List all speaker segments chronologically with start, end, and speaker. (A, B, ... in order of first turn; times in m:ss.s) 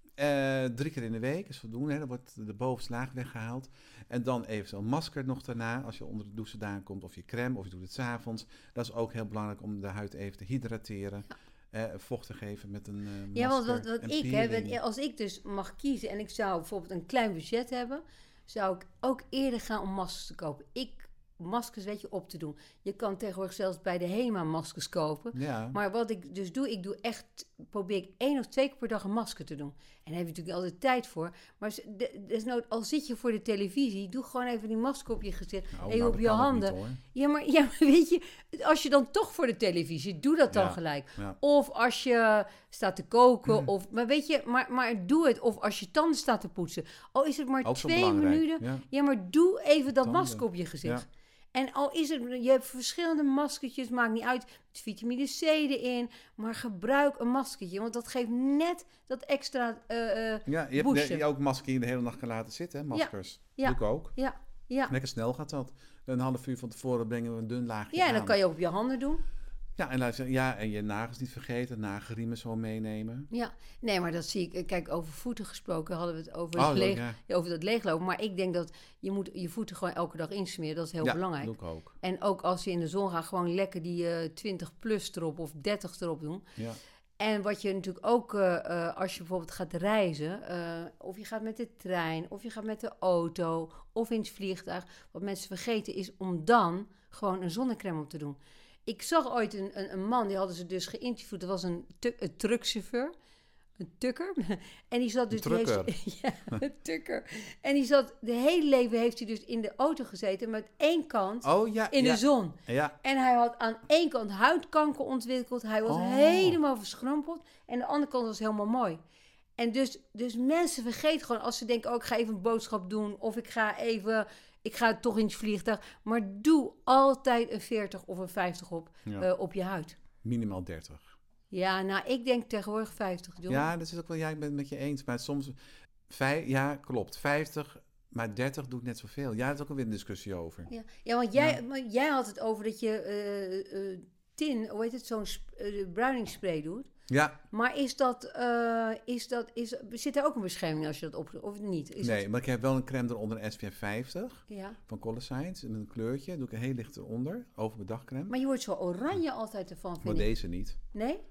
0:00.2-0:14.8 A
0:13.3-1:01.2 B
0:25.3-0:25.8 A
0:35.7-0:37.0 A
0:40.5-0:41.4 A
0:47.6-0:48.8 A
0:50.0-0:51.1 A
1:00.5-1:04.1 A
1:02.9-1:04.9 B
1:04.9-1:08.4 A
1:07.9-1:09.2 B
1:09.8-1:13.3 A
1:13.3-1:26.4 B
1:16.6-1:17.2 A
1:21.0-1:22.0 A
1:27.2-1:43.1 B
1:43.8-1:59.0 B
1:45.3-1:45.9 A
1:51.4-1:53.0 A
1:55.9-1:56.6 A
1:59.6-2:10.0 B
2:10.2-2:11.2 A
2:11.5-2:13.7 B
2:13.5-2:15.6 A
2:16.1-2:20.7 A
2:20.7-2:26.9 B
2:27.1-2:27.4 A
2:27.5-2:32.2 B
2:32.0-2:38.3 A
2:34.5-2:34.8 B
2:38.3-2:40.3 B
2:40.0-2:40.8 A
2:40.9-2:41.2 B